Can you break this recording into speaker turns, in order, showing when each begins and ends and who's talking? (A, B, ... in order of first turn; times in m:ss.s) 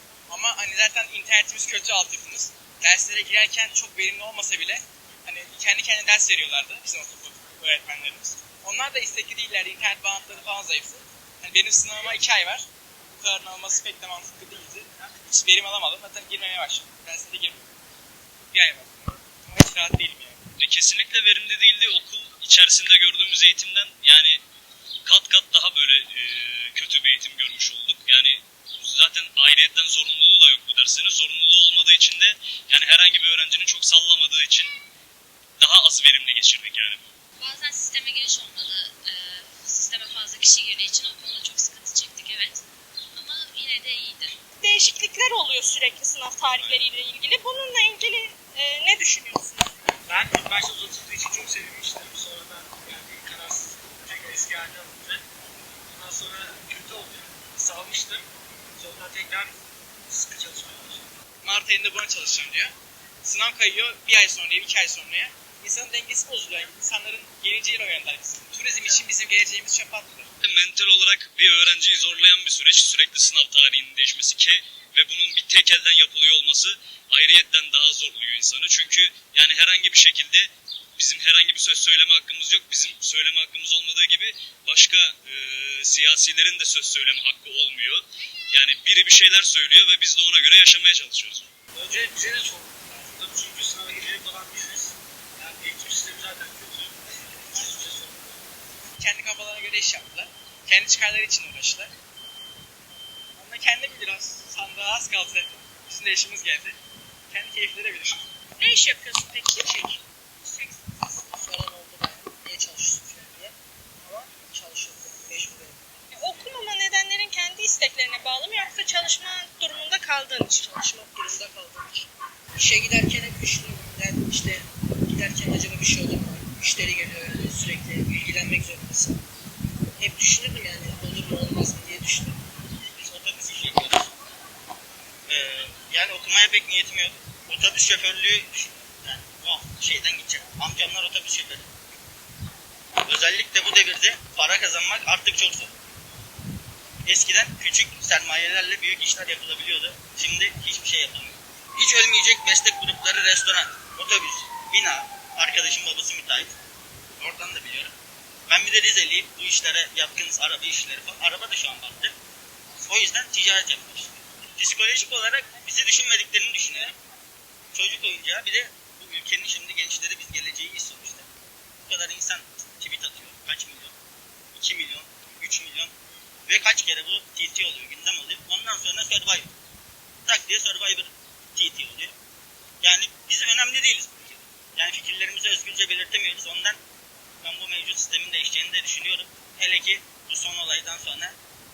0:00.3-0:17.7 A
0:18.5-0:20.4 A
0:20.6-0:24.4 B
0:25.0-0:34.7 B
0:35.6-0:37.1 B
0:37.4-0:42.6 C
0:43.1-0:44.3 C
0:44.6-0:49.7 D
0:50.1-0:55.2 E
0:55.9-0:59.5 E
1:00.1-1:01.1 E
1:01.4-1:02.7 A
1:03.2-1:10.3 A
1:10.4-1:31.5 B
1:31.7-1:38.4 E
1:39.0-1:41.9 A
1:43.4-1:46.8 A
1:47.3-1:48.3 A
1:48.6-1:51.2 D
1:51.3-1:55.8 F
1:56.1-2:01.1 D
2:01.1-2:09.2 F
2:10.0-2:12.4 F
2:13.0-2:14.1 G
2:15.3-2:21.7 G
2:23.0-2:25.7 G
2:27.0-2:36.5 G
2:37.2-2:37.9 G
2:38.5-2:42.1 G
2:42.8-2:47.0 G
2:47.7-2:51.3 G
2:51.9-2:53.9 G
2:54.5-2:55.9 G
2:56.4-2:59.5 G
3:00.2-3:02.1 G
3:02.8-3:06.8 G
3:07.4-3:11.3 G